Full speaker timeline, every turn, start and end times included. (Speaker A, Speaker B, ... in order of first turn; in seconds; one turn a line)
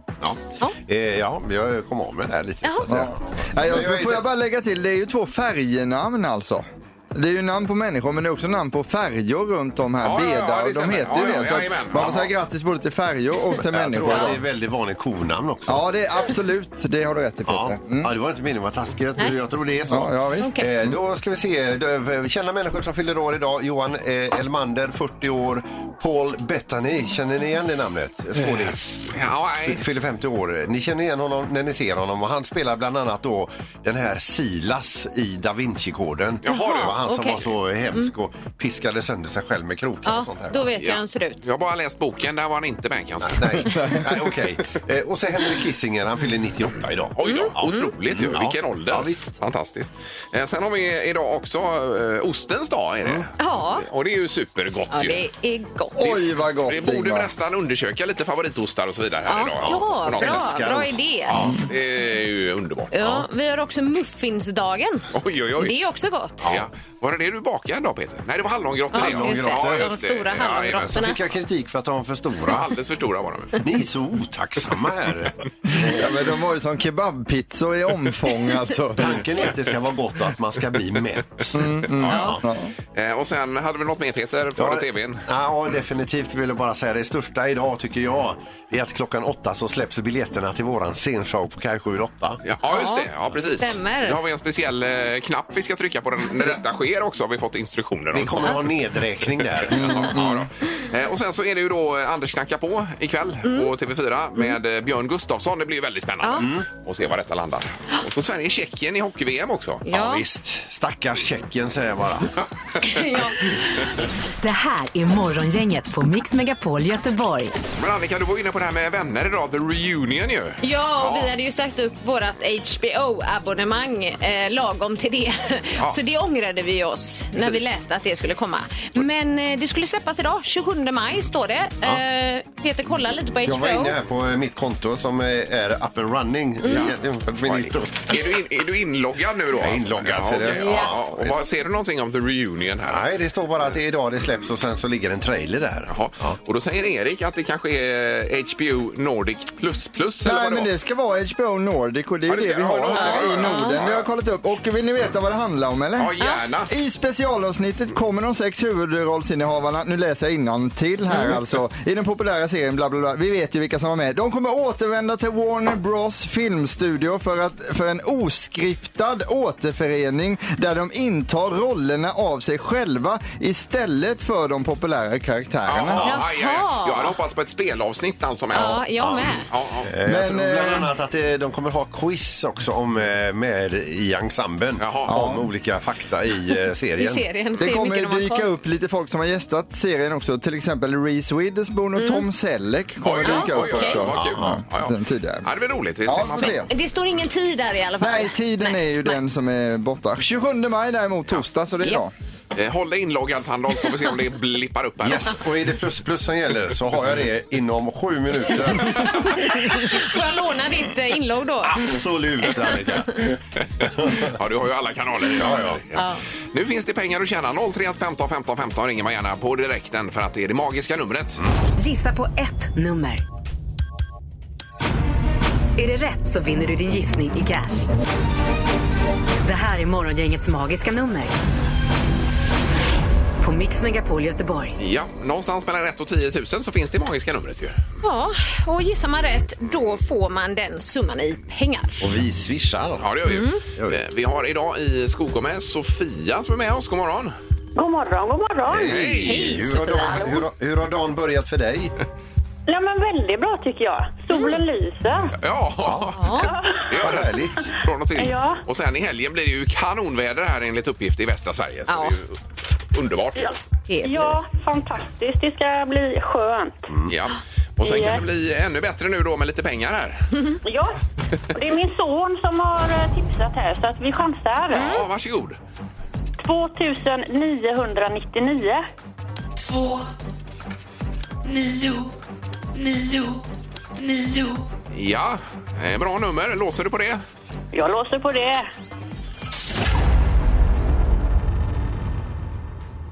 Speaker A: 0.2-4.2
Speaker B: 2.9-14.4
Speaker C: 10.0-12.3
Speaker A: 13.6-15.8
Speaker D: 14.1-14.3
Speaker B: 15.7-18.1
Speaker A: 17.5-40.7
Speaker B: 19.9-20.6
Speaker D: 20.4-20.7
Speaker C: 28.4-29.8
Speaker C: 36.4-37.0
Speaker D: 36.5-38.1
Speaker D: 40.0-41.4
Speaker C: 40.8-43.7
Speaker A: 43.2-49.3
Speaker C: 47.1-55.2
Speaker D: 47.2-47.9
Speaker D: 53.4-53.9
Speaker D: 54.9-56.1
Speaker B: 56.0-57.3
Speaker C: 56.0-60.6
Speaker D: 59.3-61.5
Speaker A: 59.6-61.6
Speaker C: 61.6-63.2
Speaker D: 62.9-66.5
Speaker C: 65.1-65.8
Speaker C: 66.4-71.0
Speaker A: 68.9-70.0
Speaker D: 68.9-71.2
Speaker A: 70.8-72.7
Speaker C: 72.5-73.6
Speaker A: 73.6-76.1
Speaker B: 75.7-79.2
Speaker A: 79.0-82.3
Speaker B: 81.5-82.7
Speaker C: 82.0-82.4
Speaker D: 82.1-82.4
Speaker C: 82.9-85.2
Speaker A: 84.6-92.4
Speaker C: 92.4-98.8
Speaker D: 92.6-93.1
Speaker D: 93.6-94.2
Speaker A: 98.1-100.0
Speaker C: 99.6-109.8
Speaker B: 99.7-100.5
Speaker D: 103.5-103.7
Speaker A: 106.3-106.7
Speaker D: 109.8-110.2
Speaker A: 109.9-112.3
Speaker D: 112.8-113.9
Speaker E: 114.4-117.5
Speaker C: 117.8-121.3
Speaker D: 120.6-133.9
Speaker C: 127.4-127.7
Speaker A: 133.4-138.2
Speaker D: 136.6-136.9
Speaker C: 136.7-143.0
Speaker A: 139.5-141.4
Speaker D: 140.6-140.9
Speaker A: 142.8-146.4
Speaker C: 145.9-150.7
Speaker B: 150.2-176.2
Speaker C: 152.2-154.1
Speaker D: 152.9-153.8
Speaker C: 156.0-156.7
Speaker C: 175.7-178.9
Speaker D: 176.0-177.2
Speaker D: 178.5-179.4
Speaker A: 178.5-187.2
Speaker C: 179.4-179.9
Speaker B: 180.1-180.9
Speaker C: 184.8-185.2
Speaker B: 185.1-185.4
Speaker D: 187.0-188.5
Speaker B: 187.6-195.4
Speaker D: 191.9-192.2
Speaker C: 193.0-196.7
Speaker D: 193.2-194.0
Speaker A: 194.1-194.6
Speaker B: 196.1-196.7
Speaker D: 196.7-199.2
Speaker B: 198.0-202.1
Speaker C: 202.5-205.4
Speaker A: 205.0-209.3
Speaker D: 208.9-211.9
Speaker A: 211.7-213.4
Speaker C: 213.8-216.0
Speaker A: 213.9-214.3
Speaker A: 215.3-215.8
Speaker D: 215.9-216.2
Speaker C: 216.5-221.4
Speaker E: 221.8-223.2
Speaker E: 225.8-227.9
Speaker E: 229.4-231.3
Speaker E: 233.4-234.8
Speaker C: 234.8-237.8
Speaker D: 238.0-242.0
Speaker A: 242.0-243.1
Speaker C: 243.0-247.3
Speaker D: 243.2-243.6
Speaker F: 247.7-248.9
Speaker A: 248.7-251.9
Speaker C: 248.7-249.5
Speaker D: 249.2-250.2
Speaker F: 249.9-250.4
Speaker F: 252.7-255.3
Speaker D: 254.3-254.6
Speaker C: 255.3-262.4
Speaker A: 255.8-256.1
Speaker D: 256.1-256.5
Speaker F: 256.5-256.9
Speaker A: 256.9-257.7
Speaker F: 258.1-258.6
Speaker D: 261.9-262.1
Speaker C: 262.9-263.6
Speaker F: 263.4-266.9
Speaker D: 263.9-264.4
Speaker A: 266.9-267.1
Speaker C: 267.1-270.3
Speaker F: 267.8-268.2
Speaker F: 270.6-271.0
Speaker F: 271.5-274.9
Speaker C: 274.7-275.6
Speaker D: 274.7-275.0
Speaker F: 276.4-278.8
Speaker C: 284.9-287.2
Speaker F: 287.7-288.7